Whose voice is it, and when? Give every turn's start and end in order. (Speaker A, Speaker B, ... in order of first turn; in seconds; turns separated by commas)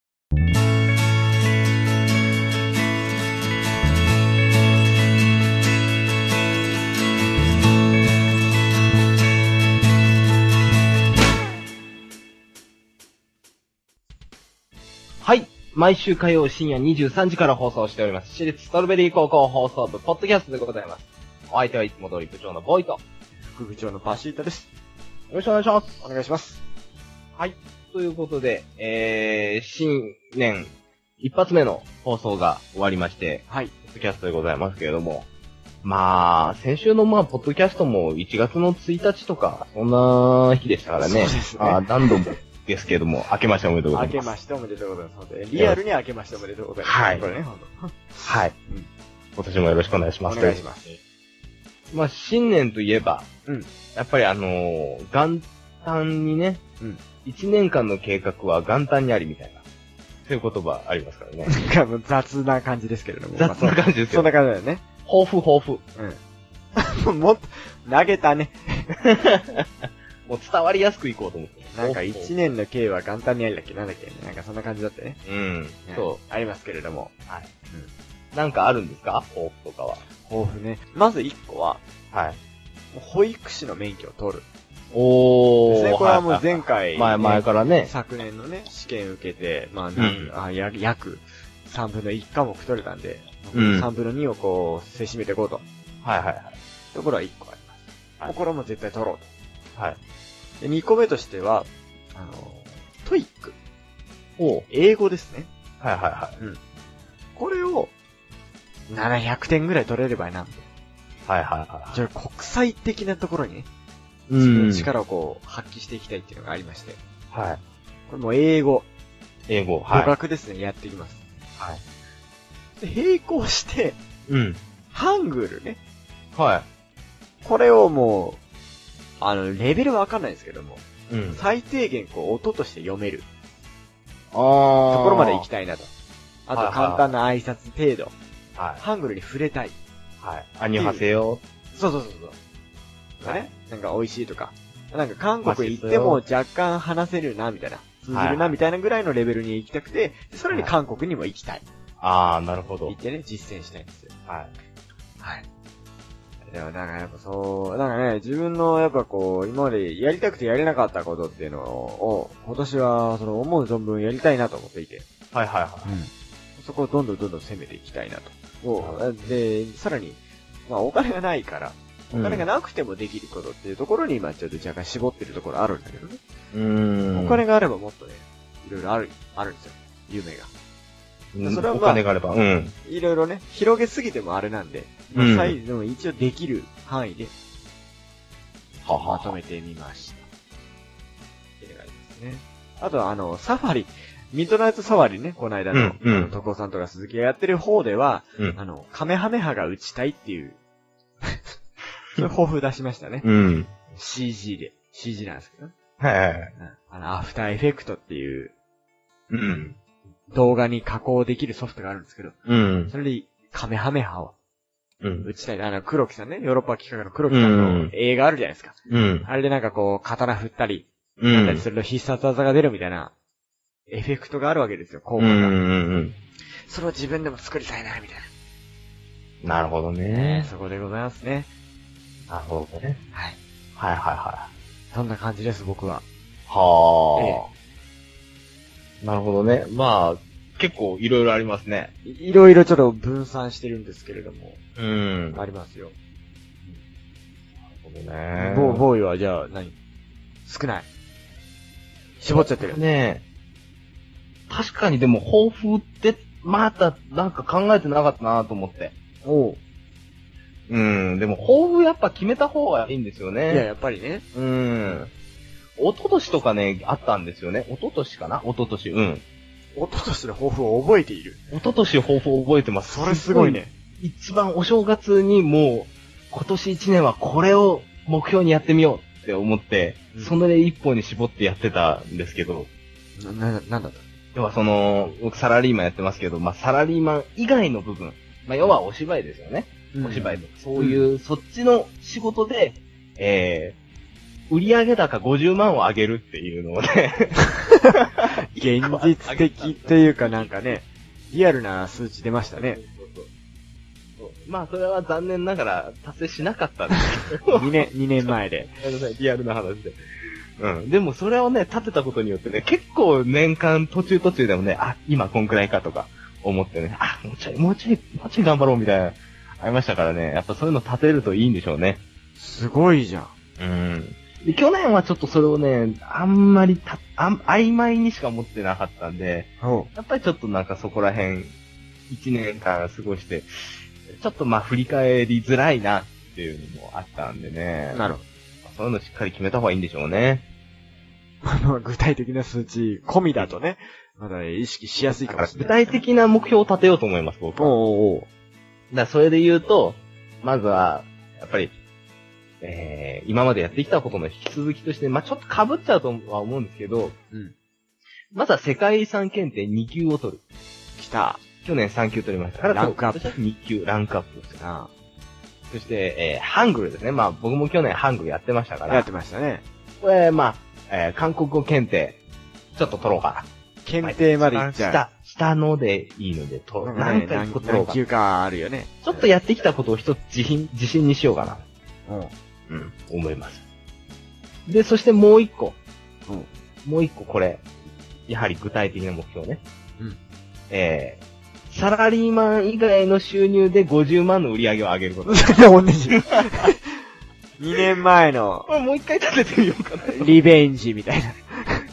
Speaker A: 15.2-23.0, Speaker B: 23.5-24.7, Speaker A: 25.3-26.1, Speaker B: 26.0-26.6, Speaker A: 27.4-35.3, Speaker B: 33.5-33.7, Speaker A: 35.8-44.3, Speaker B: 41.0-42.4, Speaker B: 43.9-48.9, Speaker A: 46.8-47.3, Speaker A: 48.2-48.5, Speaker A: 49.4-50.6, Speaker B: 50.2-51.0, Speaker A: 51.9-53.3, Speaker A: 53.9-56.6, Speaker A: 57.2-59.6, Speaker A: 60.2-61.5, Speaker B: 61.5-64.8, Speaker A: 63.4-64.3, Speaker A: 65.0-65.8, Speaker B: 66.8-68.9, Speaker A: 69.0-72.3, Speaker B: 71.7-75.2, Speaker A: 75.2-76.2, Speaker B: 75.8-77.1, Speaker A: 78.3-80.0, Speaker B: 80.2-81.8, Speaker A: 82.1-82.4, Speaker B: 82.9-84.5, Speaker A: 84.9-87.9, Speaker B: 85.7-95.6, Speaker A: 90.0-90.3, Speaker A: 93.5-93.9, Speaker A: 96.0-96.5, Speaker B: 96.9-99.3, Speaker B: 100.6-103.5, Speaker A: 104.4-104.7, Speaker B: 104.7-105.5, Speaker A: 105.8-106.4, Speaker B: 107.4-107.9, Speaker B: 108.9-110.7, Speaker A: 111.3-112.0, Speaker B: 111.9-113.7, Speaker A: 114.3-114.9, Speaker B: 114.4-117.0, Speaker A: 117.3-117.6, Speaker B: 118.1-118.9, Speaker A: 119.5-120.1, Speaker B: 119.9-121.2, Speaker B: 122.8-124.0, Speaker A: 124.3-124.6, Speaker B: 124.9-125.8, Speaker A: 126.3-126.7, Speaker B: 127.4-128.4, Speaker B: 129.2-133.3, Speaker A: 131.1-131.4, Speaker A: 134.3-135.5, Speaker B: 134.9-135.9, Speaker B: 136.4-138.1, Speaker A: 136.5-137.1, Speaker A: 138.6-138.8, Speaker B: 138.8-139.8, Speaker A: 140.2-141.4, Speaker B: 140.7-141.1, Speaker B: 141.7-142.3, Speaker B: 143.2-151.6, Speaker A: 143.2-143.5, Speaker A: 145.4-146.2, Speaker A: 148.1-148.6, Speaker A: 150.5-150.8, Speaker A: 152.0-153.0, Speaker B: 152.9-154.1, Speaker A: 154.3-154.5, Speaker B: 155.2-155.4, Speaker B: 156.4-165.1, Speaker A: 165.3-166.0, Speaker B: 165.8-176.2, Speaker A: 168.8-169.4, Speaker A: 172.1-172.5, Speaker A: 176.5-177.4, Speaker B: 177.1-180.5, Speaker A: 181.3-182.7, Speaker B: 181.4-182.0, Speaker B: 182.8-187.3, Speaker A: 185.1-185.6, Speaker A: 188.8-189.4, Speaker B: 189.0-190.3, Speaker B: 191.6-200.6, Speaker A: 195.7-196.3, Speaker B: 201.2-201.6, Speaker B: 202.1-203.3, Speaker A: 203.2-203.7, Speaker B: 203.9-205.7, Speaker A: 206.0-206.5, Speaker B: 206.5-208.5, Speaker A: 209.3-209.8, Speaker B: 210.3-212.4, Speaker A: 212.4-212.9, Speaker B: 212.9-214.3, Speaker A: 215.0-215.3, Speaker B: 215.2-223.1, Speaker A: 217.3-217.9, Speaker A: 218.9-219.3, Speaker A: 221.2-221.6, Speaker B: 223.9-225.6, Speaker A: 225.2-226.1, Speaker B: 226.5-228.3, Speaker A: 229.4-230.5, Speaker B: 230.1-231.5, Speaker A: 232.3-233.0, Speaker B: 233.1-233.4, Speaker A: 233.8-234.5, Speaker B: 234.9-236.0, Speaker A: 236.5-237.4, Speaker B: 237.2-237.5, Speaker A: 239.0-241.9, Speaker B: 242.0-244.6, Speaker A: 244.8-245.4, Speaker B: 245.3-245.9, Speaker A: 247.8-248.8, Speaker B: 248.3-249.8, Speaker B: 250.4-250.9, Speaker B: 252.2-252.8, Speaker A: 252.3-253.2, Speaker A: 254.5-258.9, Speaker B: 259.2-259.6, Speaker A: 260.7-263.7, Speaker B: 263.5-264.2, Speaker A: 264.3-265.1, Speaker A: 265.8-269.2, Speaker B: 269.8-271.4, Speaker A: 271.5-282.7, Speaker B: 272.8-273.7, Speaker B: 283.1-284.0, Speaker A: 284.3-293.8, Speaker B: 289.9-291.1, Speaker A: 294.5-297.4, Speaker B: 297.9-302.8, Speaker A: 298.6-300.8, Speaker A: 302.6-303.3, Speaker A: 304.2-310.0, Speaker B: 307.4-308.7, Speaker A: 310.6-322.0, Speaker B: 322.4-323.3, Speaker A: 323.6-331.5, Speaker B: 329.6-329.9, Speaker A: 332.1-338.0, Speaker B: 337.9-338.2, Speaker A: 338.6-340.4, Speaker B: 341.4-346.0, Speaker A: 345.0-347.7, Speaker B: 347.6-348.3, Speaker A: 348.9-351.7, Speaker A: 352.6-357.1, Speaker A: 358.3-360.4, Speaker B: 361.0-361.4, Speaker A: 361.6-364.6, Speaker B: 362.7-363.4, Speaker B: 364.6-364.9, Speaker A: 365.7-369.1, Speaker B: 368.9-369.6, Speaker A: 370.0-372.2, Speaker A: 372.8-373.5, Speaker B: 373.8-375.0, Speaker A: 374.0-378.0, Speaker B: 376.8-379.3, Speaker A: 379.0-381.6, Speaker B: 382.1-382.3, Speaker A: 382.7-383.6, Speaker A: 384.7-385.8, Speaker A: 386.8-387.7, Speaker A: 388.3-389.6, Speaker A: 390.7-396.6, Speaker B: 395.2-396.8, Speaker B: 397.6-398.7, Speaker A: 398.7-400.4, Speaker B: 400.0-401.8